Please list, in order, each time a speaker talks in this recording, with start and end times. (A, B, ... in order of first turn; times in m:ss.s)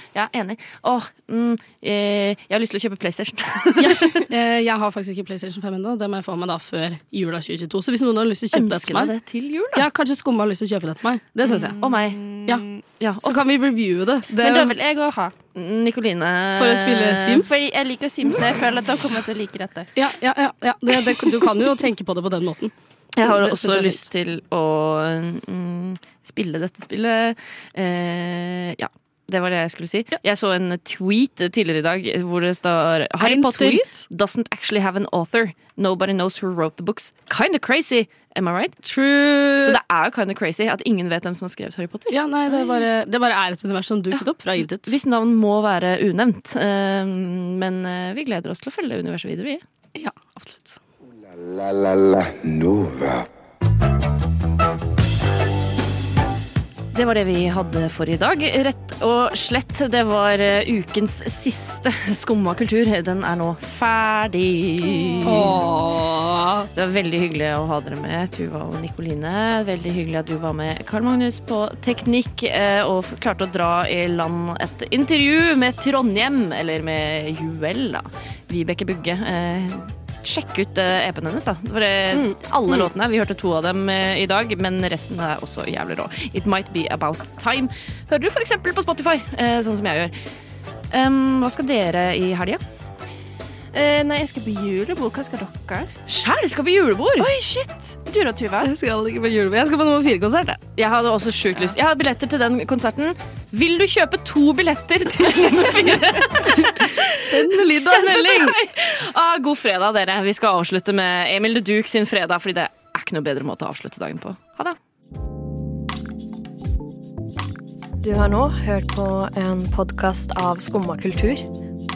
0:00.1-0:04.2 A
0:03.8-0:09.1 B
0:08.5-0:09.9 A
0:09.8-0:11.8 B
0:11.4-0:12.8 C
0:11.8-0:12.2 A
0:13.0-0:13.5 A
0:13.2-0:14.7 B
0:14.4-0:15.3 C
0:15.6-0:17.6 A
0:16.6-0:17.6 B
0:17.6-0:19.9 C
0:20.0-0:24.0 B
0:23.2-0:38.8 A
0:33.2-0:34.0 B
0:38.8-0:39.8 B
0:39.6-0:42.2 A
0:42.1-0:45.0 B
0:44.1-0:49.6 A
0:50.0-0:50.8 B
0:51.1-0:53.3 D
0:56.9-1:05.6 A
1:05.3-1:06.7 B
1:06.8-1:30.1 A
1:22.1-1:22.9 B
1:30.9-1:32.6 A
1:33.7-1:36.0 C
1:36.1-1:37.3 A
1:37.2-1:38.7 C
1:38.6-1:40.6 B
1:40.8-1:54.8 A
1:46.6-1:48.6 B
1:58.0-2:01.5 E